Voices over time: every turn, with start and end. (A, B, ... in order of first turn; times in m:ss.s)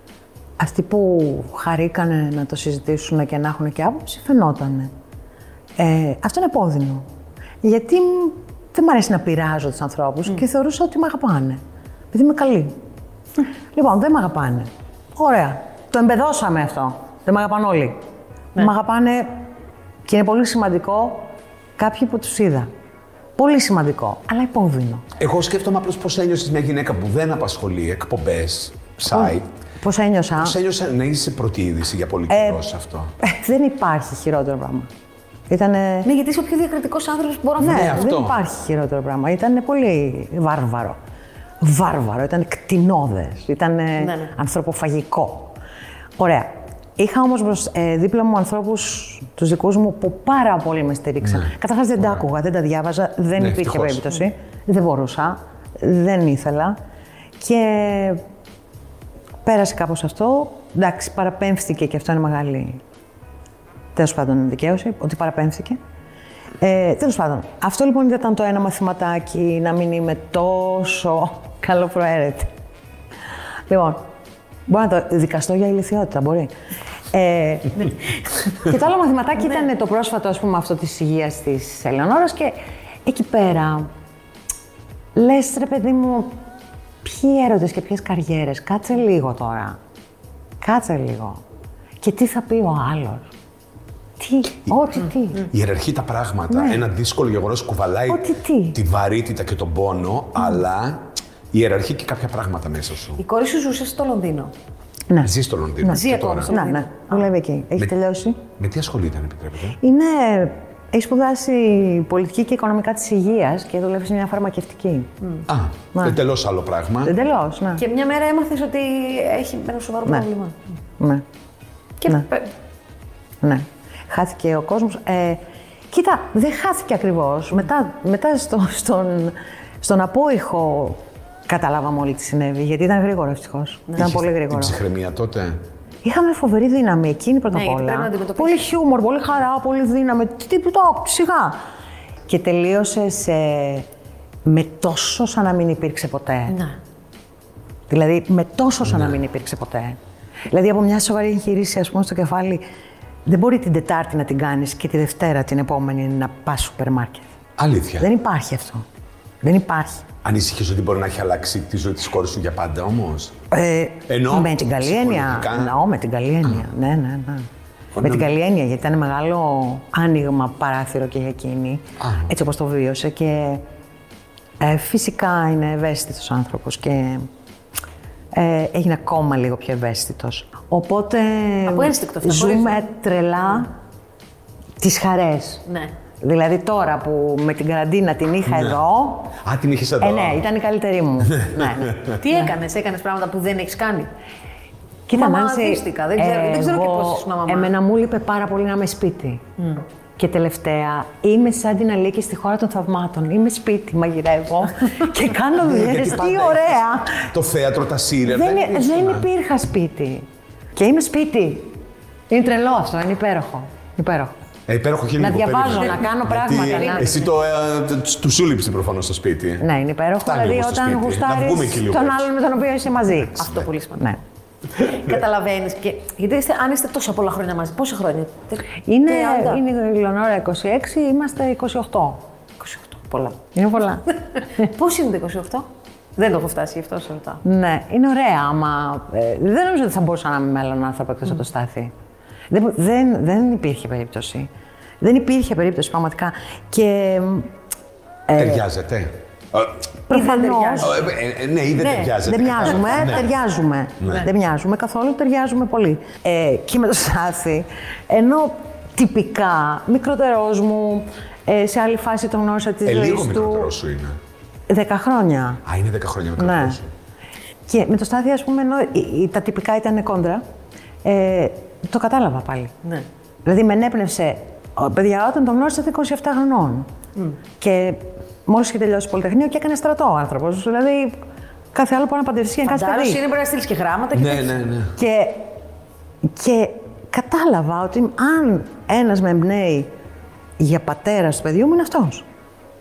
0:00.6-0:04.9 A
0:05.8-0:07.0 A
0:07.6-0:11.6 A
0:12.1-0:12.7 A
0:13.7-0:18.0 A
0:18.6-0:19.3 A
0:20.0-0:22.7 A
0:23.4-0:25.0 A
0:25.2-0:29.5 B
0:29.1-0:30.6 A
0:30.4-0:33.1 B
0:32.3-0:32.6 A
0:33.2-0:34.9 A
0:35.5-0:36.1 A
0:36.0-0:38.1 C
0:37.6-0:38.4 B
0:37.6-0:41.0 A
0:41.6-0:45.5 A
0:44.0-0:44.3 C
0:46.2-0:56.7 A
0:53.4-0:54.0 B
0:57.4-0:58.2 A
0:59.4-1:02.8 A
1:03.9-1:05.8 A
1:06.6-1:12.5 A
1:13.7-1:14.0 A
1:14.7-1:16.5 A
1:17.1-1:23.9 A
1:25.1-1:26.3 A
1:27.0-1:29.8 A
1:30.6-1:31.4 A
1:32.0-1:33.3 A
1:34.2-1:35.5 A
1:35.4-1:43.2 B
1:36.5-1:36.8 A
1:38.1-1:38.8 A
1:43.2-1:44.5 C
1:45.1-1:48.4 A
1:45.2-1:46.5 B
1:45.8-1:47.3 C
1:48.6-1:49.8 B
1:49.8-1:55.1 A
1:55.5-1:57.1 B
1:57.0-1:57.8 A
1:57.8-2:00.6 C
2:01.0-2:01.2 A
2:02.0-2:02.5 C
2:03.4-2:14.7 A
2:14.0-2:15.6 B
2:16.0-2:21.6 A
2:17.5-2:18.6 C
2:22.3-2:23.9 A
2:24.4-2:26.6 A
2:26.5-2:26.8 C
2:27.9-2:30.0 A
2:30.5-2:32.6 A
2:33.2-2:37.3 A
2:37.6-2:38.1 B
2:38.0-2:38.8 A
2:39.4-2:40.1 A
2:40.2-2:43.4 B
2:43.5-2:47.5 A
2:44.1-2:45.8 B
2:48.0-2:48.3 B
2:48.0-2:53.6 A
2:52.0-2:52.3 B
2:54.6-2:57.3 A
2:58.3-3:03.7 A
3:01.6-3:02.8 C
3:04.8-3:05.6 A
3:05.7-3:05.9 C
3:06.2-3:09.3 A
3:08.5-3:08.8 B
3:09.4-3:10.4 B
3:10.0-3:12.5 A
3:11.4-3:12.2 B
3:12.1-3:14.1 C
3:15.1-3:19.4 A
3:15.1-3:17.7 C
3:20.2-3:27.2 A
3:25.6-3:29.3 B
3:28.2-3:31.8 A
3:32.3-3:34.3 A
3:34.7-3:39.6 B
3:35.2-3:37.1 A
3:36.5-3:37.2 C
3:39.6-3:43.4 A
3:40.2-3:42.3 B
3:43.3-3:44.2 C
3:44.8-3:49.6 C
3:48.9-3:52.2 A
3:52.6-3:53.4 C
3:53.5-3:54.0 A
3:54.6-3:57.4 C
3:57.4-4:01.9 A
4:02.5-4:04.5 A
4:05.0-4:07.5 A
4:08.3-4:08.6 A
4:08.4-4:09.8 B
4:10.1-4:11.0 A
4:10.1-4:11.0 C
4:10.8-4:13.3 B
4:11.8-4:23.7 A
4:14.0-4:14.3 B
4:22.8-4:24.2 B
4:24.7-4:25.6 A
4:25.6-4:26.9 B
4:26.4-4:26.8 A
4:27.7-4:30.4 A
4:31.0-4:32.7 A
4:33.4-4:36.9 A
4:37.6-4:41.2 A
4:41.7-4:43.2 A
4:42.6-4:44.6 C
4:44.1-4:45.0 B
4:44.9-4:45.5 A
4:46.2-4:49.9 A
4:50.6-4:52.2 A